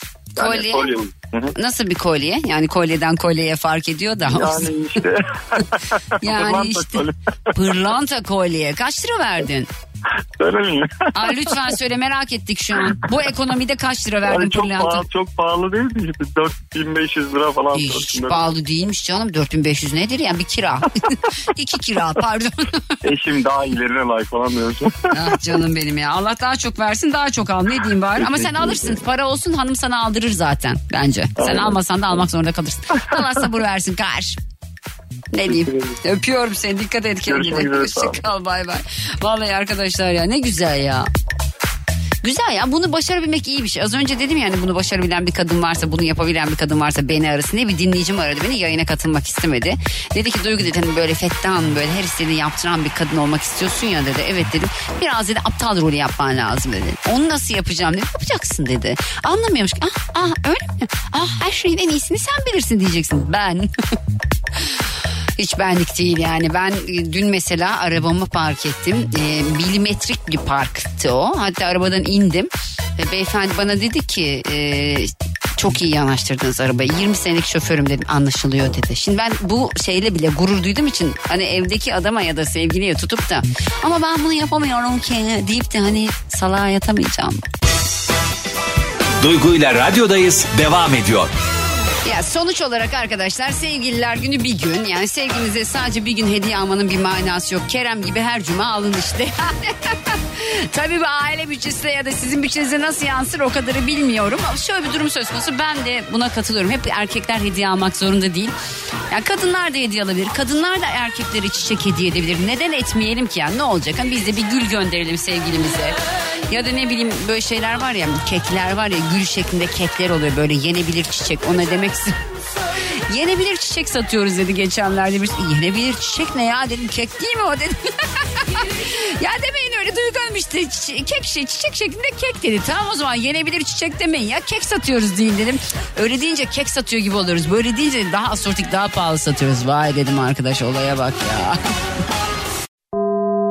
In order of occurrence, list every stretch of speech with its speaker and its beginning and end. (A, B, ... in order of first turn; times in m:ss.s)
0:00.4-0:01.0 A
0:00.4-0:01.5 B
0:01.5-0:04.7 A
0:04.3-0:07.1 B
0:06.2-0:09.7 A
0:10.4-0:11.7 B
0:11.1-0:15.0 A
0:14.2-0:18.4 B
0:17.7-0:22.9 A
0:23.0-0:25.0 B
0:25.1-0:34.4 A
0:28.2-0:29.0 B
0:31.4-0:31.8 B
0:35.3-0:41.1 A
0:35.5-0:35.8 B
0:37.3-0:38.2 B
0:42.2-1:03.7 A
1:05.4-1:27.4 A
1:29.2-1:31.3 C
1:32.0-1:48.5 A
1:49.1-1:55.9 A
1:56.5-2:02.1 A
2:03.1-2:21.6 A